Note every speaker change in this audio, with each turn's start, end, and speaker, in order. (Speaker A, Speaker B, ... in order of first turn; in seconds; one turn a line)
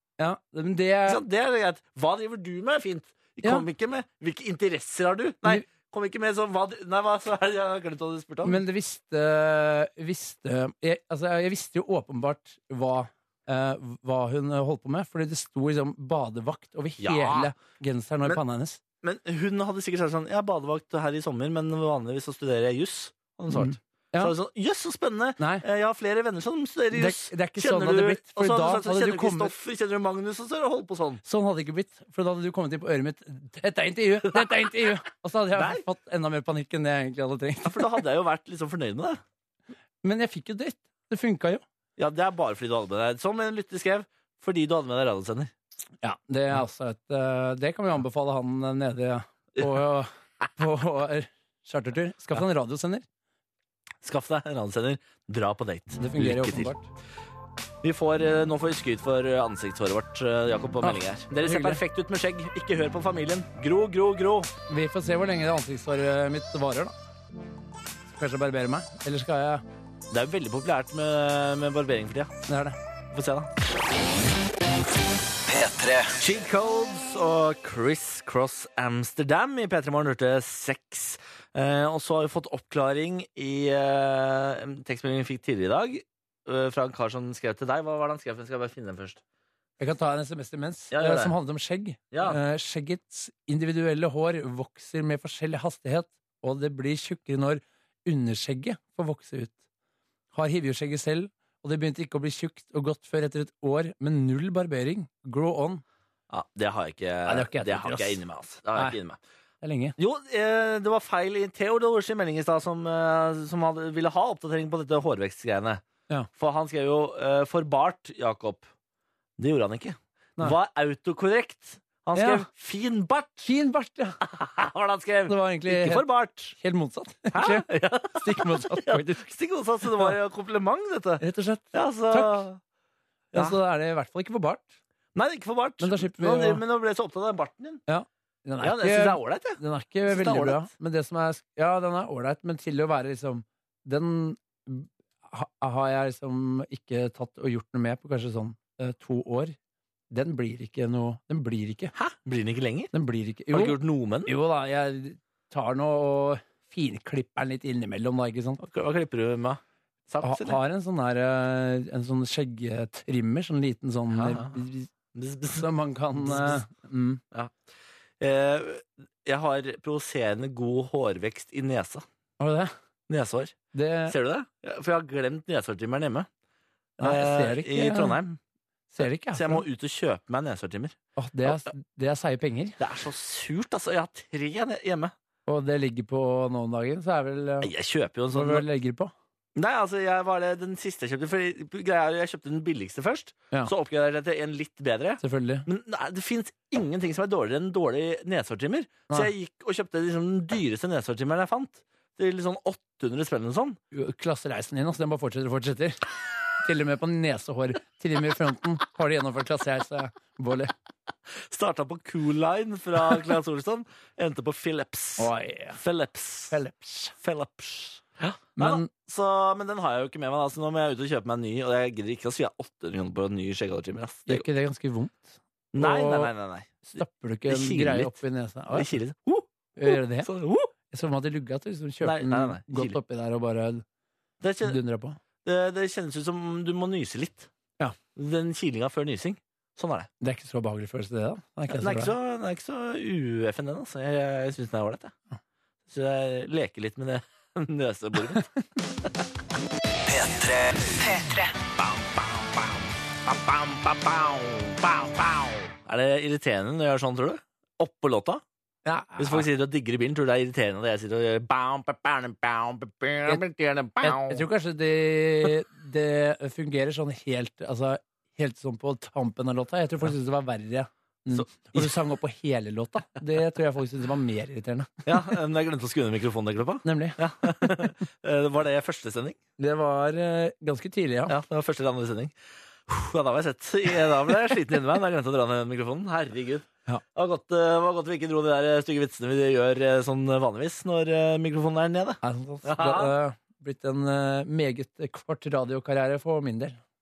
Speaker A: 0.2-1.2
Speaker B: 1.1-8.6
Speaker A: 8.4-18.8
Speaker B: 17.0-17.5
Speaker B: 19.0-31.2
Speaker A: 23.5-24.3
Speaker A: 25.4-25.6
Speaker A: 26.9-29.5
Speaker A: 31.2-37.9
Speaker B: 35.5-35.8
Speaker B: 37.6-39.2
Speaker A: 40.0-41.6
Speaker B: 42.0-45.5
Speaker A: 46.0-53.0
Speaker B: 54.0-56.7
Speaker A: 56.0-56.9
Speaker B: 57.8-64.5
Speaker A: 60.8-61.8
Speaker A: 64.7-66.9
Speaker A: 68.1-69.6
Speaker B: 70.1-72.3
Speaker A: 72.5-72.8
Speaker B: 73.1-73.5
Speaker C: 75.5-76.2
Speaker B: 76.2-89.2
Speaker A: 89.8-99.5
Speaker B: 90.9-91.3
Speaker B: 92.1-92.4
Speaker A: 100.3-105.8
Speaker B: 106.3-109.2
Speaker A: 107.2-108.2
Speaker A: 109.6-110.0
Speaker B: 110.0-115.8
Speaker B: 116.4-118.7
Speaker B: 119.4-123.5
Speaker A: 122.1-122.5
Speaker A: 123.4-124.2
Speaker B: 124.2-126.5
Speaker A: 125.3-129.2
Speaker B: 127.3-132.6
Speaker A: 131.2-132.4
Speaker A: 133.3-134.7
Speaker B: 135.1-137.8
Speaker A: 135.8-136.6
Speaker A: 137.9-149.6
Speaker B: 138.6-140.7
Speaker A: 150.1-151.9
Speaker B: 151.9-152.9
Speaker A: 152.9-158.6
Speaker B: 153.5-154.3
Speaker B: 158.6-160.6
Speaker A: 160.2-164.9
Speaker B: 164.1-164.6
Speaker B: 165.1-166.6
Speaker A: 165.6-167.2
Speaker B: 167.3-167.6
Speaker B: 168.2-172.0
Speaker A: 172.4-172.7
Speaker B: 173.1-173.6
Speaker A: 173.7-174.2
Speaker B: 174.1-176.3
Speaker A: 177.0-178.2
Speaker B: 177.0-178.4
Speaker A: 178.9-179.6
Speaker B: 179.0-181.6
Speaker A: 181.2-182.8
Speaker B: 182.8-185.1
Speaker A: 185.5-187.7
Speaker B: 187.6-188.7
Speaker A: 188.3-189.1
Speaker B: 189.6-203.8
Speaker A: 195.2-195.7
Speaker A: 203.9-206.0
Speaker A: 206.6-210.7
Speaker B: 211.5-216.6
Speaker A: 215.2-215.8
Speaker A: 216.5-217.1
Speaker B: 217.2-224.4
Speaker A: 218.6-218.9
Speaker A: 224.3-226.3
Speaker B: 225.7-228.2
Speaker A: 226.8-228.9
Speaker B: 228.7-230.7
Speaker A: 229.8-230.3
Speaker A: 230.9-233.8
Speaker B: 232.0-233.0
Speaker B: 234.4-234.8
Speaker A: 234.6-235.2
Speaker B: 235.4-237.5
Speaker B: 238.1-240.1
Speaker A: 240.2-242.1
Speaker B: 241.7-245.1
Speaker B: 245.9-248.5
Speaker C: 250.1-251.5
Speaker B: 251.8-258.4
Speaker A: 258.8-259.4
Speaker B: 259.2-264.4
Speaker A: 264.0-275.2
Speaker B: 271.3-271.9
Speaker B: 275.1-279.4
Speaker A: 276.8-277.9
Speaker A: 279.6-281.4
Speaker B: 281.3-282.3
Speaker B: 282.9-293.1
Speaker A: 292.2-296.8